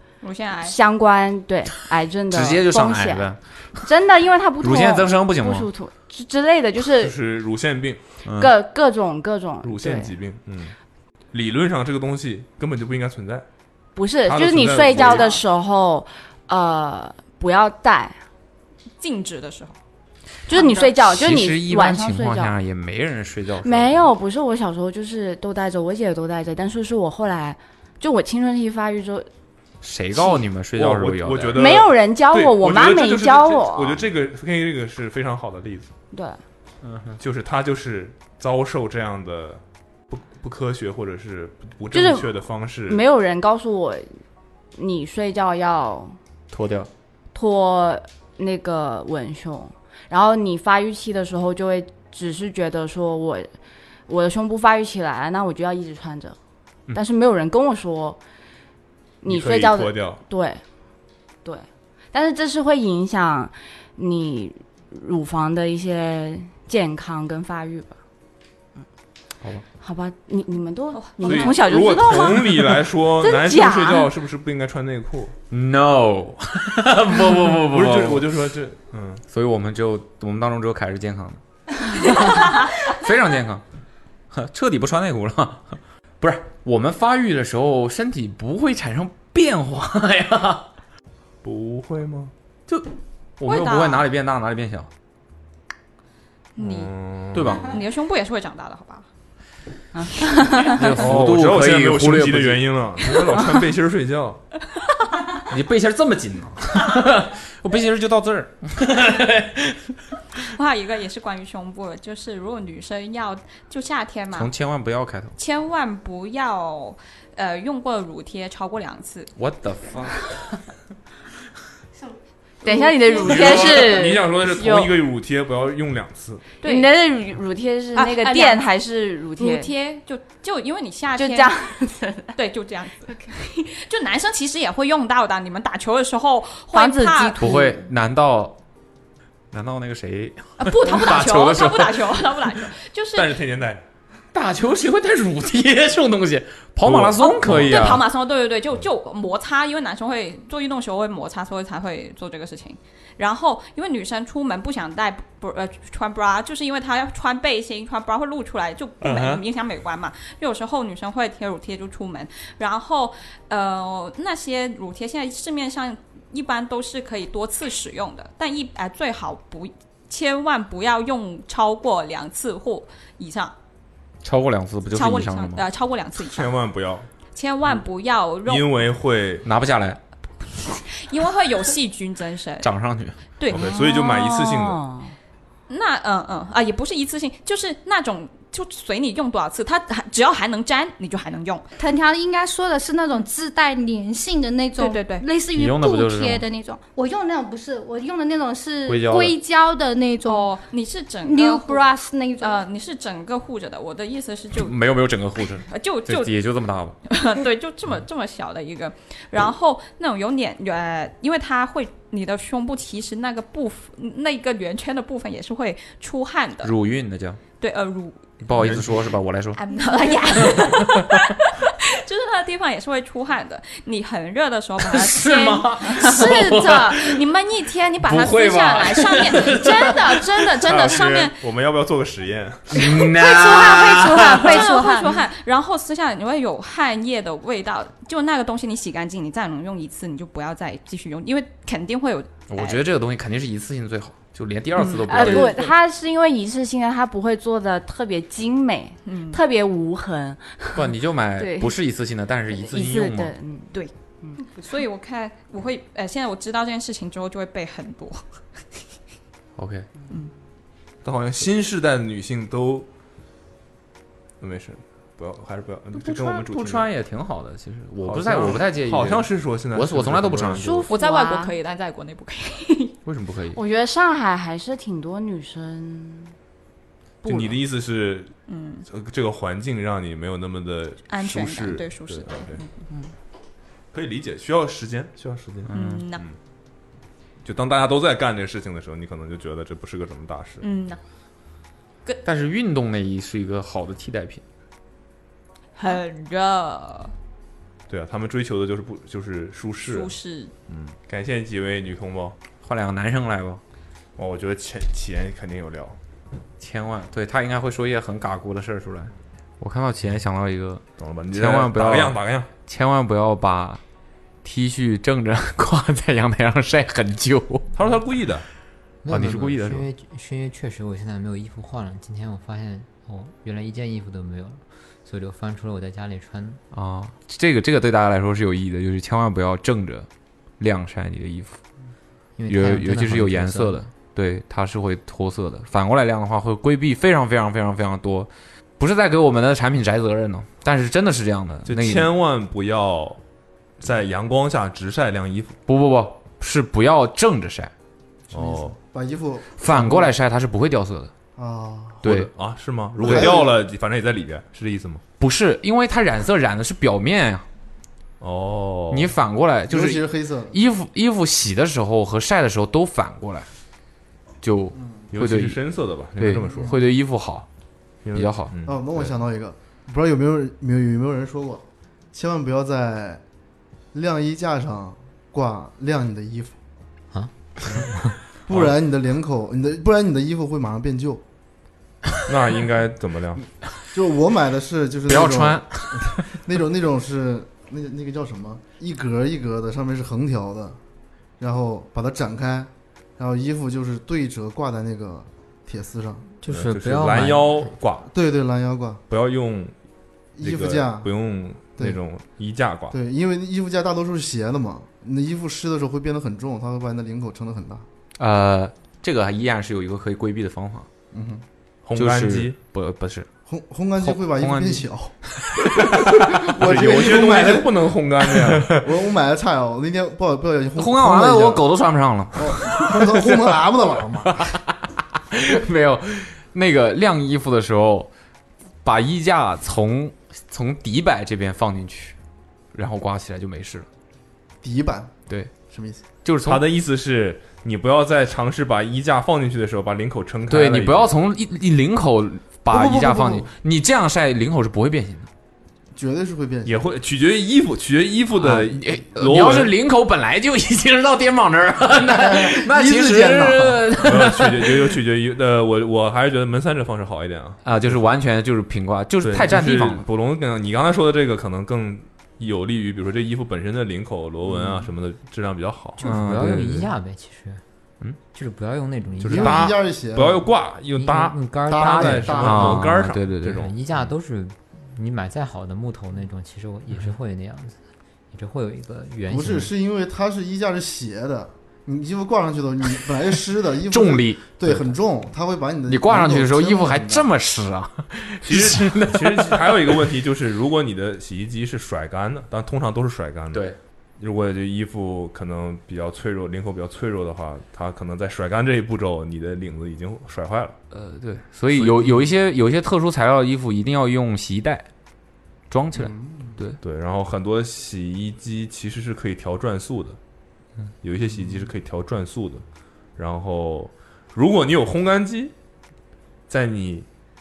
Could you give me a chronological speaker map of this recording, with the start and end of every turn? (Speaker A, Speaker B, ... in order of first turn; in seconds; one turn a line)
Speaker A: 0.2-0.8
Speaker B: 0.6-7.1
Speaker C: 2.3-3.4
Speaker C: 4.6-5.7
Speaker D: 7.0-8.0
Speaker C: 8.2-8.5
Speaker B: 8.3-10.2
Speaker D: 9.6-10.7
Speaker D: 11.3-13.4
Speaker B: 13.9-18.2
Speaker D: 14.2-15.4
Speaker A: 14.9-15.4
Speaker A: 19.0-19.8
Speaker B: 20.5-22.6
Speaker A: 20.5-20.9
Speaker C: 21.0-24.1
Speaker B: 23.6-29.3
Speaker C: 29.8-31.7
Speaker D: 30.8-35.9
Speaker B: 31.5-34.0
Speaker B: 36.1-36.4
Speaker C: 36.8-37.2
Speaker D: 37.2-43.0
Speaker B: 41.9-44.1
Speaker B: 44.8-46.2
Speaker C: 46.5-46.9
Speaker B: 47.3-53.5
Speaker B: 54.1-56.4
Speaker B: 56.9-58.2
Speaker B: 59.2-60.6
Speaker D: 59.2-60.2
Speaker B: 61.4-68.0
Speaker B: 69.8-74.1
Speaker A: 70.9-71.9
Speaker D: 71.2-75.3
Speaker C: 75.5-78.3
Speaker D: 77.6-79.2
Speaker C: 79.3-81.4
Speaker C: 82.2-83.6
Speaker C: 84.3-90.7
Speaker D: 91.4-92.3
Speaker C: 92.7-94.9
Speaker A: 93.4-94.1
Speaker A: 96.5-96.9
Speaker D: 96.6-97.7
Speaker C: 97.3-97.8
Speaker A: 97.5-99.1
Speaker B: 99.9-100.8
Speaker C: 100.7-102.6
Speaker D: 101.0-104.4
Speaker C: 105.5-109.9
Speaker A: 110.5-114.5
Speaker C: 114.3-115.3
Speaker A: 115.3-119.3
Speaker C: 119.3-120.3
Speaker B: 122.6-125.0
Speaker A: 122.6-123.8
Speaker D: 123.2-126.5
Speaker A: 126.6-126.9
Speaker B: 126.6-129.7
Speaker A: 127.9-128.6
Speaker A: 129.4-131.6
Speaker B: 131.1-132.3
Speaker A: 132.3-137.4
Speaker B: 136.7-137.9
Speaker C: 137.4-138.6
Speaker C: 139.5-141.9
Speaker A: 140.6-143.3
Speaker D: 143.1-143.8
Speaker C: 144.3-148.0
Speaker D: 146.8-147.9
Speaker A: 147.2-173.5
Speaker D: 159.0-159.4
Speaker C: 174.2-175.6
Speaker A: 174.9-176.6
Speaker D: 176.2-177.1
Speaker A: 177.3-178.8
Speaker D: 178.4-179.4
Speaker C: 179.4-180.0
Speaker A: 180.8-182.7
Speaker C: 182.6-183.2
Speaker A: 183.4-183.8
Speaker D: 183.5-184.8
Speaker B: 183.5-185.1
Speaker A: 185.7-191.6
Speaker E: 191.8-200.5
Speaker A: 194.8-195.2
Speaker C: 195.5-196.4
Speaker C: 198.8-199.3
Speaker A: 200.2-201.8
Speaker E: 201.2-202.6
Speaker A: 202.4-204.8
Speaker C: 204.5-207.0
Speaker A: 205.6-206.3
Speaker A: 207.1-216.7
Speaker C: 216.6-217.4
Speaker A: 217.6-218.2
Speaker C: 218.4-219.6
Speaker D: 218.6-218.9
Speaker A: 219.5-231.4
Speaker C: 224.8-227.2
Speaker C: 228.0-230.5
Speaker D: 230.6-232.8
Speaker C: 232.7-234.6
Speaker A: 232.9-242.8
Speaker E: 233.3-235.1
Speaker C: 242.5-245.6
Speaker B: 244.8-251.7
Speaker A: 245.0-245.7
Speaker A: 249.0-249.4
Speaker C: 250.7-253.3
Speaker B: 252.5-254.4
Speaker A: 253.7-258.3
Speaker C: 259.6-259.9
Speaker D: 261.0-262.9
Speaker D: 264.4-266.9
Speaker C: 265.9-270.9
Speaker D: 268.0-270.7
Speaker B: 270.6-271.5
Speaker A: 270.9-272.9
Speaker C: 273.0-273.6
Speaker B: 273.5-276.3
Speaker B: 277.2-277.6
Speaker D: 277.2-282.6
Speaker A: 278.5-278.9
Speaker A: 281.1-282.7
Speaker D: 283.9-285.7
Speaker C: 285.7-286.1
Speaker A: 285.7-286.2
Speaker D: 287.4-290.6
Speaker A: 290.6-291.0
Speaker C: 292.2-294.4
Speaker A: 295.8-297.1
Speaker D: 297.9-300.1
Speaker A: 299.8-300.5
Speaker D: 300.7-302.4
Speaker C: 302.6-303.6
Speaker D: 304.2-306.0
Speaker C: 306.6-313.8
Speaker D: 311.0-312.5
Speaker C: 314.4-317.7
Speaker D: 317.7-318.4
Speaker F: 319.0-326.6
Speaker C: 319.1-319.9
Speaker C: 326.7-330.1
Speaker C: 330.6-331.6
Speaker F: 332.4-333.8
Speaker C: 332.5-342.1
Speaker D: 341.6-343.2
Speaker D: 343.8-345.6
Speaker C: 345.7-347.7
Speaker D: 348.3-348.7
Speaker G: 348.3-350.1
Speaker C: 349.6-351.1
Speaker G: 351.4-352.0
Speaker C: 352.0-352.3
Speaker D: 352.0-355.0
Speaker G: 353.0-353.6
Speaker C: 353.0-353.3
Speaker C: 355.2-357.4
Speaker D: 358.2-359.1
Speaker C: 358.9-363.5
Speaker G: 359.7-360.5
Speaker C: 364.4-367.5
Speaker G: 364.7-365.0
Speaker D: 365.1-366.8
Speaker D: 368.0-369.1
Speaker C: 368.1-368.5
Speaker G: 368.6-373.2
Speaker G: 373.9-376.6
Speaker F: 377.1-378.2
Speaker G: 378.5-381.2
Speaker D: 382.3-383.4
Speaker G: 383.9-390.8
Speaker C: 385.1-386.2
Speaker G: 391.4-396.3
Speaker F: 396.4-397.8
Speaker D: 396.5-398.1
Speaker G: 398.1-399.0
Speaker D: 399.1-399.8
Speaker G: 400.4-401.1
Speaker D: 400.4-402.9
Speaker G: 402.9-407.8
Speaker C: 408.2-410.9
Speaker G: 411.1-411.4
Speaker D: 411.8-412.6
Speaker C: 411.9-413.3
Speaker G: 413.5-415.3
Speaker C: 414.0-415.6
Speaker G: 416.4-417.9
Speaker D: 416.6-418.8
Speaker G: 418.7-421.6
Speaker C: 420.8-423.4
Speaker G: 422.3-424.3
Speaker C: 424.3-424.8
Speaker C: 425.3-428.1
Speaker C: 428.8-432.2
Speaker C: 432.7-433.9
Speaker G: 434.6-436.0
Speaker C: 436.2-436.6
Speaker D: 436.4-441.1
Speaker C: 440.5-445.3
Speaker G: 442.7-443.5
Speaker G: 445.9-446.9
Speaker D: 446.6-449.7
Speaker C: 448.4-454.9
Speaker G: 452.1-453.9
Speaker D: 454.0-458.0
Speaker C: 457.6-460.0
Speaker D: 459.2-466.0
Speaker G: 464.4-464.9
Speaker F: 466.0-467.6
Speaker C: 466.0-466.9
Speaker F: 468.3-469.7
Speaker D: 469.2-473.7
Speaker G: 469.2-470.5
Speaker F: 470.9-479.7
Speaker G: 471.7-472.8
Speaker C: 472.4-473.6
Speaker G: 479.3-487.3
Speaker C: 483.9-484.9
Speaker C: 485.9-490.0
Speaker D: 488.4-500.8
Speaker C: 493.5-493.8
Speaker C: 500.9-504.9
Speaker D: 501.7-502.2
Speaker C: 505.7-506.8
Speaker G: 506.0-506.6
Speaker D: 506.8-510.2
Speaker D: 511.0-512.6
Speaker D: 513.1-515.5
Speaker D: 516.5-517.1